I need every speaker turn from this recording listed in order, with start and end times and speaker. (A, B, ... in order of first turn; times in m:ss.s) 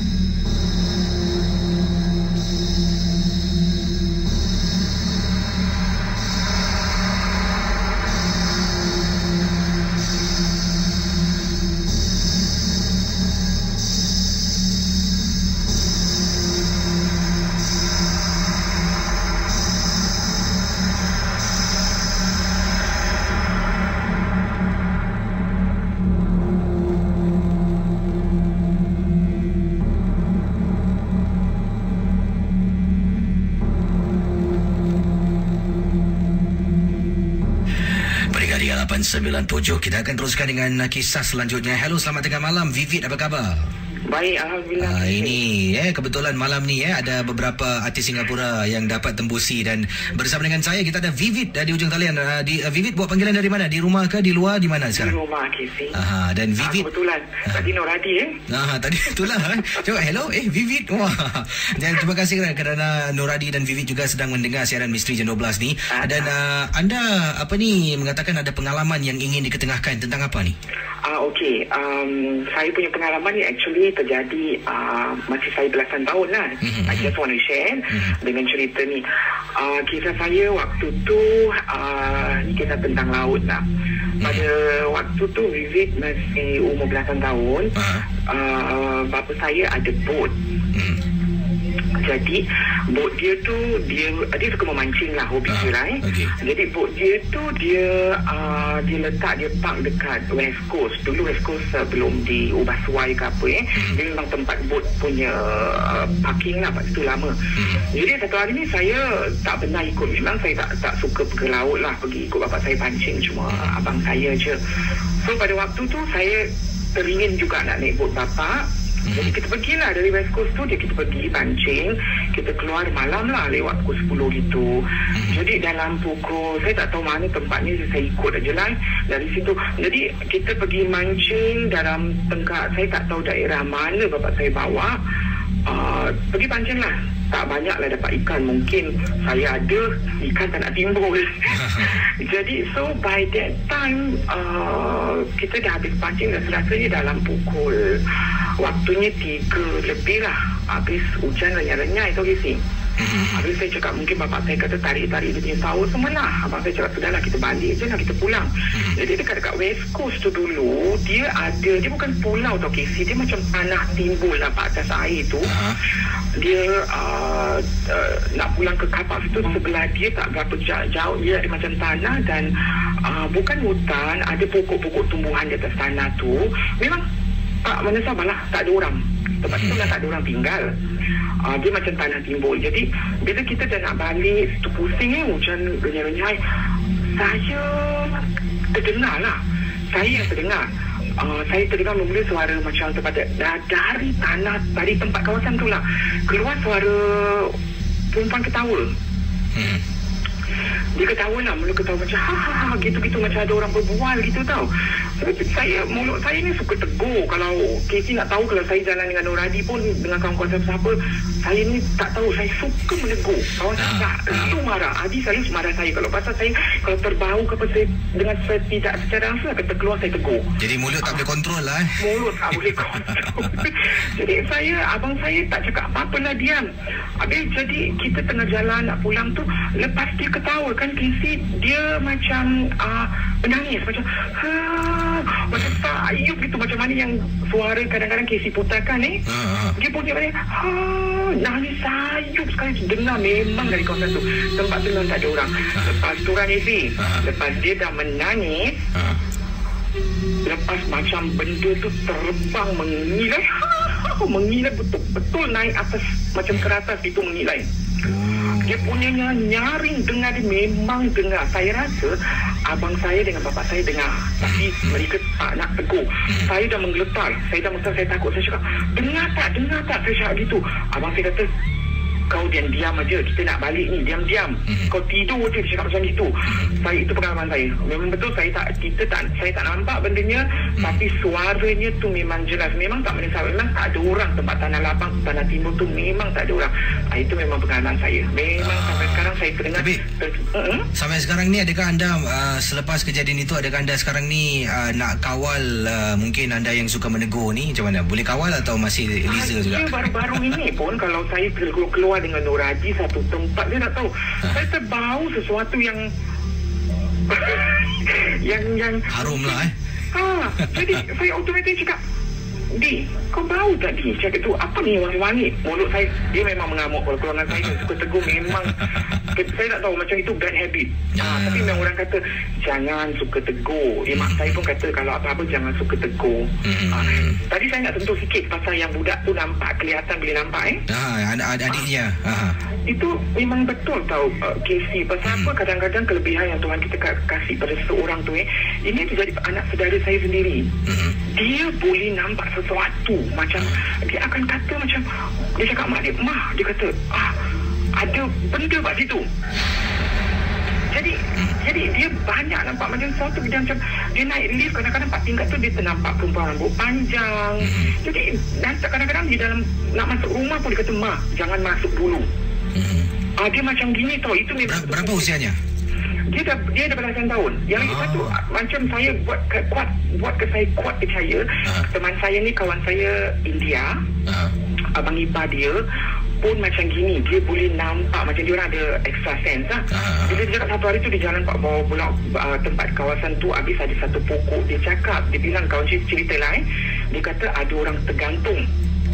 0:38.3-0:43.7 A
0:44.1-0:45.4 B
0:44.8-0:55.2 A
0:54.9-0:56.0 B
0:55.9-0:56.9 A
0:56.6-0:58.4 B
0:58.5-1:10.6 A
1:05.9-1:06.3 B
1:11.0-1:23.6 B
1:16.6-1:17.1 A
1:17.9-1:18.2 A
1:24.2-1:27.7 B
1:27.7-1:28.0 A
1:28.2-1:30.3 B
1:30.7-1:31.0 A
1:32.0-1:47.4 B
1:35.5-1:36.3 A
1:47.6-1:47.8 A
1:47.9-1:54.6 B
1:53.5-1:53.8 A
1:55.2-2:15.0 B
1:59.0-1:59.3 A
2:05.1-2:05.4 A
2:15.6-2:28.0 B
2:21.5-2:22.0 A
2:28.6-2:32.6 B
2:33.0-2:33.4 A
2:33.3-2:45.5 B
2:38.7-2:39.0 A
2:45.4-2:45.8 A
2:46.4-2:52.5 B
2:53.0-2:57.0 B
2:57.6-3:00.7 B
2:59.5-2:59.9 A
3:01.4-3:06.4 B
3:07.1-3:09.4 B
3:09.9-3:10.7 B
3:10.0-3:10.3 A
3:11.2-3:17.6 B
3:18.1-3:18.9 B
3:19.5-3:19.8 A
3:20.9-3:40.5 B
3:33.8-3:34.5 A
3:40.6-3:43.7 A
3:42.0-3:46.7 B
3:47.2-3:59.2 B
3:59.2-3:59.8 A
3:59.8-4:08.8 B
4:07.0-4:07.2 A
4:08.9-4:09.2 A
4:10.4-4:17.6 B
4:18.0-4:19.0 A
4:18.5-4:31.5 B
4:24.4-4:25.0 A
4:32.3-4:50.9 B
4:34.7-4:34.9 A
4:48.6-4:50.0 A
4:50.9-5:00.5 A
4:59.3-5:06.0 B
5:07.3-5:12.0 B
5:09.1-5:09.7 A
5:12.7-5:30.8 B
5:17.5-5:17.8 A
5:18.8-5:19.1 A
5:21.1-5:21.8 A
5:24.1-5:24.6 A
5:26.6-5:27.4 A
5:30.9-5:32.6 A
5:32.8-5:40.7 B
5:40.8-5:41.2 A
5:41.3-5:45.0 B
5:45.6-5:47.4 B
5:48.0-5:49.2 B
5:50.9-6:02.2 B
5:57.6-5:57.9 A
6:02.7-6:03.1 A
6:03.4-6:05.3 B
6:04.6-6:05.6 A
6:06.3-6:14.0 B
6:07.8-6:08.4 A
6:11.6-6:11.9 A
6:14.2-6:14.5 A
6:14.9-6:15.8 B
6:16.4-6:28.6 B
6:19.9-6:20.4 A